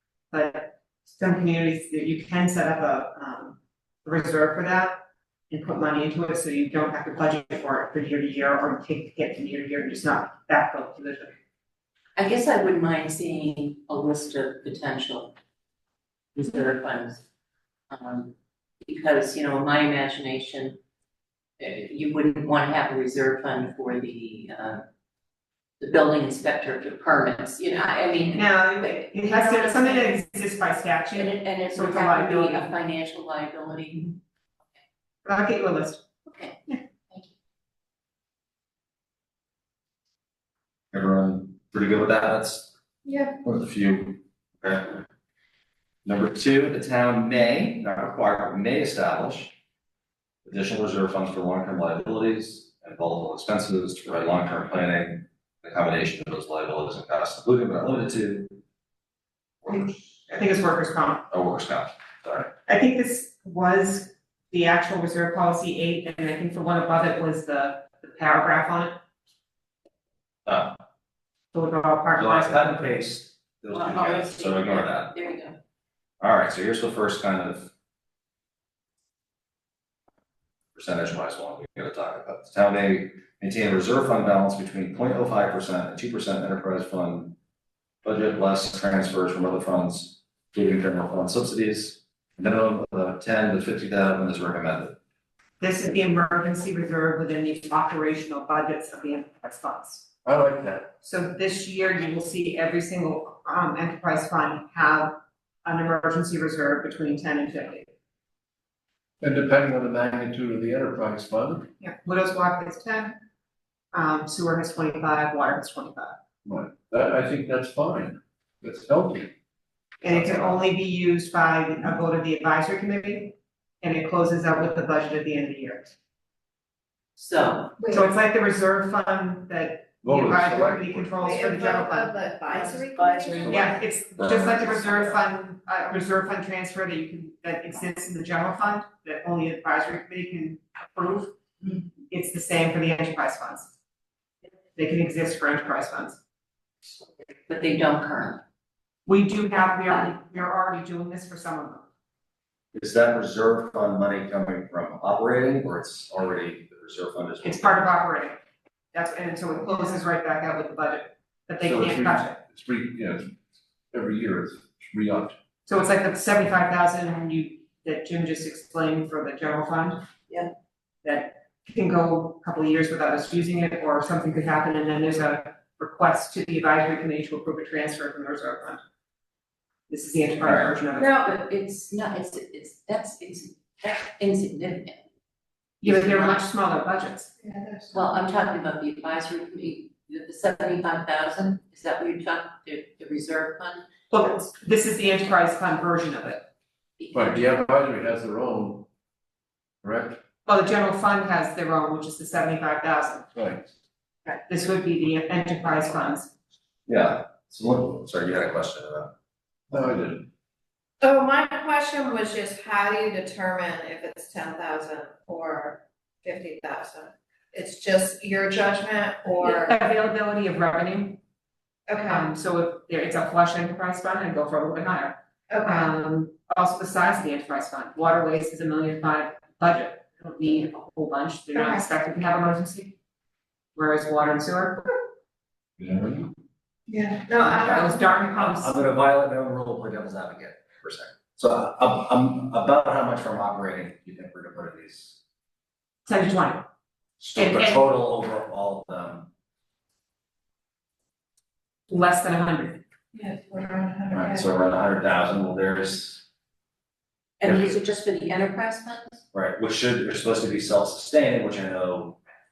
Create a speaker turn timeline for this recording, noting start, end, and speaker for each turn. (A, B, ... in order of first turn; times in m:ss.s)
0:00.3-0:11.4 A
0:12.2-0:15.3 B
0:16.3-0:17.2 B
0:17.9-0:20.8 B
0:21.6-0:24.8 B
0:25.8-0:30.2 B
0:28.3-0:32.7 A
0:31.1-0:34.2 B
0:35.2-0:36.0 A
0:36.2-0:37.3 B
0:40.9-0:42.7 C
0:43.0-0:43.3 D
0:43.4-0:45.0 C
0:46.0-0:49.5 C
0:50.4-0:58.6 C
0:59.6-1:00.1 C
1:00.3-1:01.3 A
1:01.3-1:02.5 C
1:02.7-1:09.0 A
1:10.4-1:10.8 C
1:11.5-1:13.0 A
1:12.2-1:15.1 C
1:13.7-1:15.6 B
1:16.2-1:17.7 C
1:20.7-1:27.4 C
1:28.0-1:35.0 C
1:35.6-1:40.1 A
1:40.2-1:40.9 E
1:41.0-1:47.9 A
1:49.2-1:51.7 E
1:51.8-1:53.2 A
1:53.9-1:56.2 A
1:56.4-1:59.3 E
2:00.0-2:05.9 A
2:00.1-2:00.5 E
2:07.2-2:07.7 B
2:07.8-2:08.1 D
2:07.9-2:12.2 A
2:10.0-2:11.1 E
2:11.2-2:13.7 D
2:12.5-2:13.7 B
2:13.4-2:21.4 A
2:13.4-2:14.5 E
2:22.1-2:23.7 A
2:24.7-2:26.2 A
2:27.5-2:28.4 B
2:29.0-2:31.9 A
2:32.7-2:37.8 C
2:37.4-2:38.4 A
2:38.9-2:42.4 A
2:41.6-2:43.4 E
2:43.9-2:45.4 E
2:45.7-2:50.0 A
2:51.0-2:58.8 A
2:59.9-3:01.1 A
3:00.4-3:00.8 C
3:01.0-3:05.0 B
3:05.8-3:07.3 A
3:05.8-3:06.4 B
3:07.4-3:07.9 D
3:07.9-3:13.8 B
3:14.1-3:16.4 A
3:17.0-3:17.6 B
3:17.1-3:18.9 E
3:19.8-3:20.2 E
3:20.4-3:23.3 A
3:23.3-3:23.7 E
3:24.5-3:26.3 A
3:26.8-3:29.1 C
3:29.7-3:30.3 E
3:31.0-3:39.8 D
3:39.4-3:41.2 A
3:41.9-3:42.3 D
3:42.1-3:52.9 A
3:45.5-3:45.9 D
3:51.5-3:51.8 D
3:53.7-3:54.9 A
3:55.8-3:56.3 E
3:56.9-3:58.2 D
3:57.5-3:58.8 A
3:58.2-4:05.2 C
4:06.0-4:06.6 A
4:07.2-4:09.3 C
4:07.4-4:07.8 A
4:11.9-4:12.8 A
4:13.1-4:14.5 D
4:14.1-4:16.2 C
4:17.4-4:19.2 B
4:17.4-4:17.8 C
4:19.3-4:22.2 C